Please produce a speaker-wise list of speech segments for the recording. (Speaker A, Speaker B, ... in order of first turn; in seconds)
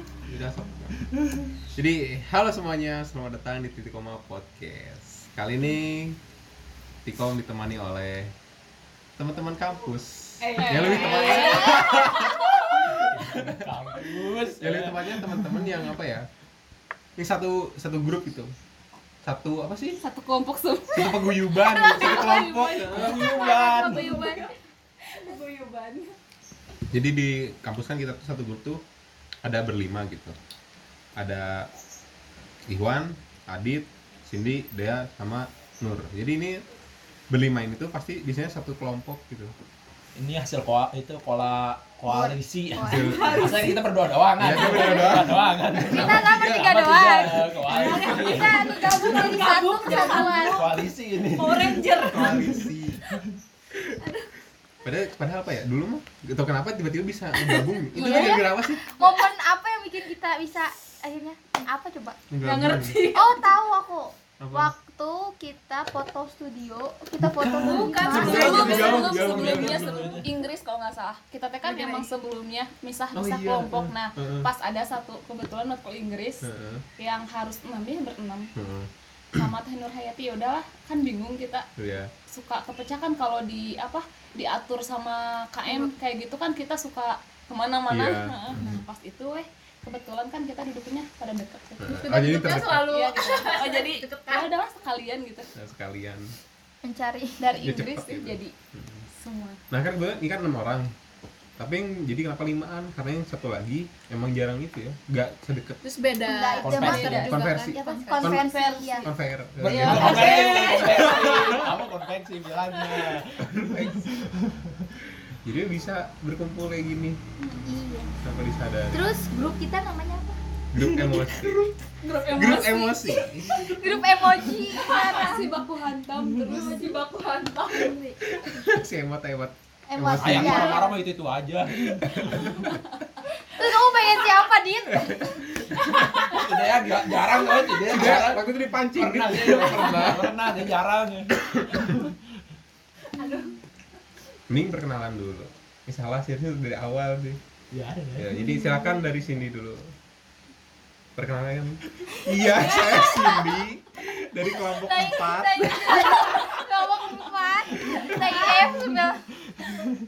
Speaker A: 0.2-1.0, 1.7-6.2, 7.0-8.3, 9.2-16.3, 17.2-18.5, 19.2-20.0, 20.9-23.3, 26.9-28.8, 29.4-30.4, 31.2-31.7, 32.7-36.6, 37.3-39.5, 42.8-43.8, 44.4-46.8, 52.1-53.0, 54.8-58.8, 62.3-63.1, 64.4-64.7, 68.1-70.1, 73.1-74.5, 76.4-76.8, 78.5-79.4, 81.8-82.1, 87.9-88.8, 91.8-92.9, 95.5-96.3, 97.6-99.0, 99.7-100.9, 101.6-105.8, 106.9-108.5, 109.0-111.7, 113.4-114.2, 115.3-117.2, 118.2-119.0, 120.7-123.8, 128.3-130.8, 131.8-132.8, 134.9-136.3, 137.8-140.6, 141.3-141.9, 144.5-147.4, 148.2-149.9, 151.2-156.3
Speaker B: 10.4-12.9, 20.0-26.1, 43.0-43.5, 47.8-50.5, 51.8-52.3, 57.4-59.3, 62.4-63.5, 67.6-76.4, 77.0-78.5, 79.3-81.6, 82.3-92.0, 92.8-95.5, 97.4-98.5, 99.1-99.6, 106.1-109.1, 109.7-111.2, 117.4-117.6, 121.9-124.0, 124.7-127.9, 143.1-143.5, 152.6-153.0, 158.1-158.8
Speaker C: 10.4-11.8, 48.8-50.8, 51.4-52.3, 71.6-72.1, 92.0-94.4, 105.9-108.3, 109.7-111.1
Speaker D: 11.3-11.8, 21.8-22.4, 23.1-24.5, 42.1-43.4, 45.8-50.6, 57.9-62.2, 63.1-69.0, 88.5-88.8, 96.8-97.7, 106.2-109.1, 109.9-111.1, 117.6-118.1, 118.9-120.4, 123.5-125.5, 126.4-127.1, 127.7-128.6, 129.9-130.9, 133.5-135.4, 148.4-148.9, 152.1-153.6, 154.7-159.3
Speaker E: 13.1-15.6, 22.9-24.4, 40.1-48.8, 50.4-52.5, 67.2-70.3, 106.6-107.3, 109.6-114.8, 130.1-132.6, 136.1-142.2, 147.7-148.3, 159.6-159.9